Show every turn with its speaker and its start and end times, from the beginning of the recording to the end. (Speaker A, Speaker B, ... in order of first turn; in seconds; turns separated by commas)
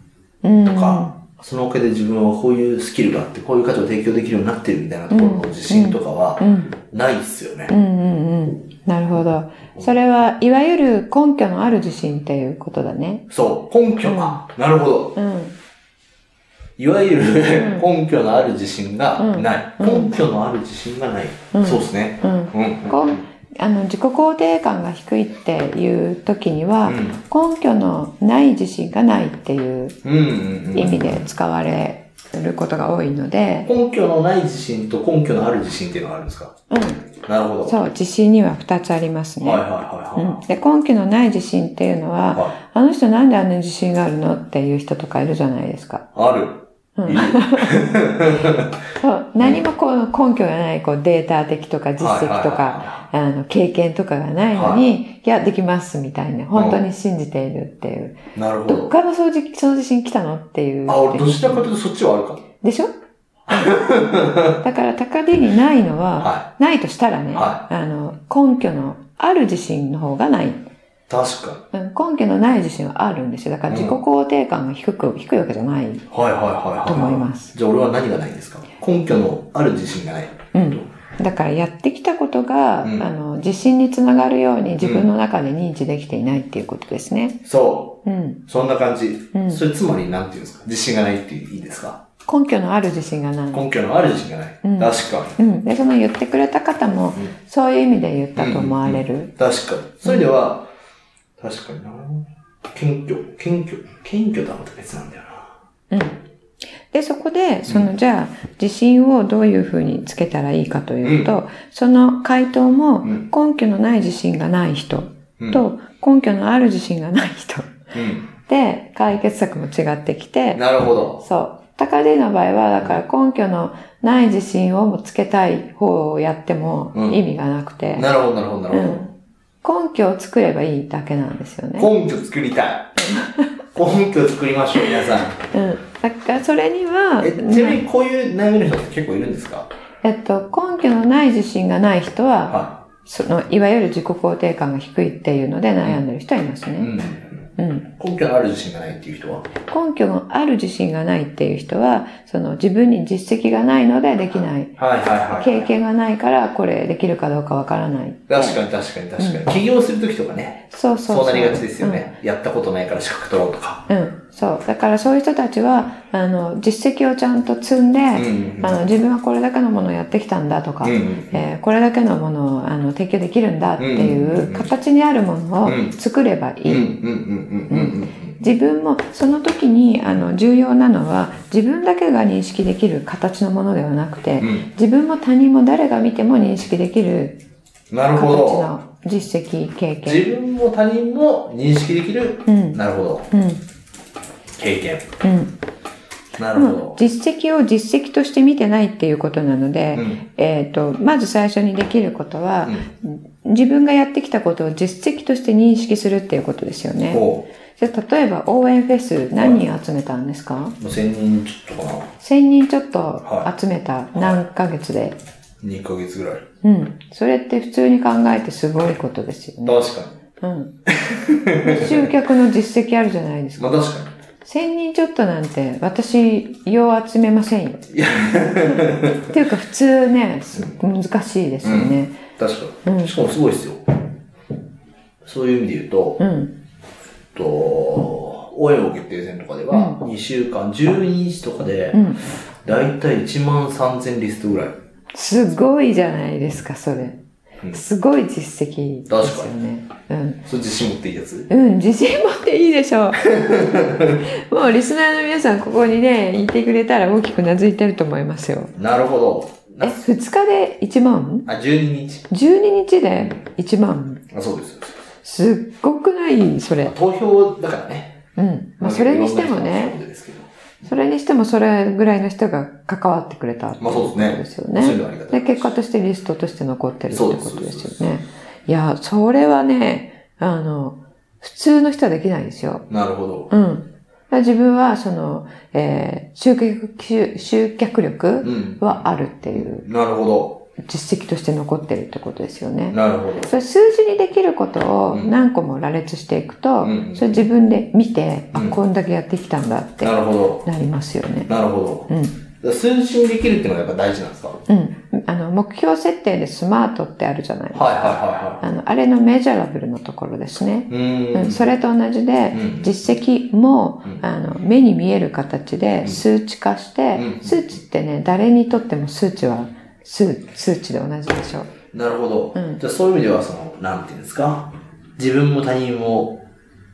Speaker A: 0.4-1.1, Speaker B: 0.6-7.7, Speaker A: 5.1-6.7, Speaker A: 7.7-13.3, Speaker B: 13.3-15.2, Speaker A: 14.0-14.4, Speaker A: 15.2-15.6, Speaker B: 16.8-23.1, Speaker A: 17.5-17.9, Speaker A: 19.2-20.1, Speaker A: 21.5-30.0, Speaker B: 26.8-27.2, Speaker B: 30.0-31.2, Speaker A: 30.7-33.7, Speaker B: 33.6-36.5, Speaker A: 36.7-37.1, Speaker B: 37.1-37.8, Speaker A: 37.6-39.6, Speaker B: 39.4-40.4, Speaker A: 40.1-46.1, Speaker B: 46.1-48.7, Speaker A: 47.0-47.9, Speaker A: 49.0-61.6, Speaker B: 52.0-53.0, Speaker B: 54.5-54.8, Speaker B: 56.5-56.8, Speaker B: 58.3-58.9, Speaker B: 60.9-62.5, Speaker A: 62.6-62.9, Speaker A: 63.5-63.8, Speaker B: 63.5-64.6, Speaker A: 64.5-70.6, Speaker B: 66.2-66.5, Speaker B: 67.3-67.6, Speaker B: 71.1-71.7, Speaker A: 71.7-76.1, Speaker B: 73.7-74.0, Speaker B: 76.1-80.9, Speaker A: 76.8-77.5, Speaker A: 80.5-87.4, Speaker B: 84.8-85.1, Speaker B: 87.4-92.0, Speaker A: 88.0-88.4, Speaker A: 89.3-89.6, Speaker A: 92.2-93.7, Speaker B: 93.5-95.4, Speaker A: 94.6-99.3, Speaker B: 98.3-100.7, Speaker B: 101.4-105.5, Speaker A: 105.9-106.2, Speaker A: 106.9-117.8, Speaker B: 111.0-111.3, Speaker B: 117.9-118.3, Speaker A: 118.5-120.6, Speaker B: 120.5-121.2, Speaker A: 121.2-128.1, Speaker B: 126.9-127.2, Speaker B: 127.9-129.0, Speaker A: 128.7-129.1, Speaker A: 129.6-131.9, Speaker B: 131.8-133.0, Speaker A: 133.0-133.5, Speaker B: 133.7-135.4, Speaker A: 135.5-137.8, Speaker B: 137.2-139.7, Speaker A: 140.0-146.9, Speaker B: 142.5-142.8, Speaker B: 146.8-149.5, Speaker A: 147.6-147.9, Speaker A: 149.7-154.7, Speaker B: 154.8-155.7, Speaker A: 155.3-158.6, Speaker B: 158.3-163.8, Speaker A: 159.2-159.4, Speaker A: 160.7-162.1, Speaker A: 163.9-177.0, Speaker B: 168.1-168.8, Speaker B: 170.8-171.4, Speaker B: 173.8-174.7, Speaker B: 175.6-175.9, Speaker B: 176.7-178.3, Speaker A: 177.7-187.4, Speaker B: 184.4-184.7, Speaker B: 187.9-188.7, Speaker A: 188.2-190.3, Speaker B: 190.0-193.3, Speaker A: 192.5-192.8, Speaker A: 193.3-193.6, Speaker B: 194.6-195.1, Speaker A: 195.2-195.5, Speaker B: 196.4-197.0, Speaker A: 196.5-210.8, Speaker B: 199.9-200.2, Speaker B: 207.1-207.5, Speaker B: 209.4-209.6, Speaker B: 210.8-212.1, Speaker A: 212.2-215.2, Speaker B: 213.2-213.5, Speaker B: 214.1-214.4, Speaker B: 215.6-216.4, Speaker A: 216.6-219.8, Speaker B: 219.6-220.2, Speaker A: 220.4-220.8, Speaker B: 220.9-222.1, Speaker A: 221.5-223.8, Speaker B: 223.6-224.1, Speaker A: 224.4-232.2, Speaker B: 227.9-229.3, Speaker B: 231.6-234.1, Speaker A: 232.8-233.1, Speaker B: 235.2-236.2, Speaker A: 236.2-236.5, Speaker B: 237.3-242.0, Speaker A: 239.7-240.0, Speaker A: 241.9-242.2, Speaker B: 242.6-244.8, Speaker A: 245.1-250.4, Speaker B: 249.1-249.5, Speaker B: 250.4-251.5, Speaker A: 251.5-253.3, Speaker B: 253.2-254.2, Speaker A: 254.2-258.7, Speaker B: 258.8-260.0, Speaker A: 259.8-261.5, Speaker B: 261.4-262.3, Speaker A: 262.3-264.2, Speaker B: 264.3-265.0, Speaker A: 265.2-266.9, Speaker B: 266.8-268.2, Speaker A: 268.4-270.0, Speaker B: 268.8-270.5, Speaker A: 270.8-282.9, Speaker B: 273.8-275.7, Speaker B: 277.1-278.1, Speaker B: 282.9-283.5, Speaker A: 283.5-289.9, Speaker B: 288.4-290.7, Speaker A: 290.8-301.5, Speaker B: 292.9-293.5, Speaker B: 296.8-297.4, Speaker B: 300.0-300.7, Speaker B: 301.5-302.1, Speaker A: 302.1-302.4, Speaker B: 302.6-304.6, Speaker A: 304.7-321.7, Speaker B: 307.7-308.6, Speaker B: 310.9-311.7, Speaker B: 312.5-312.9, Speaker B: 317.1-317.8, Speaker B: 321.9-326.4, Speaker A: 322.5-322.8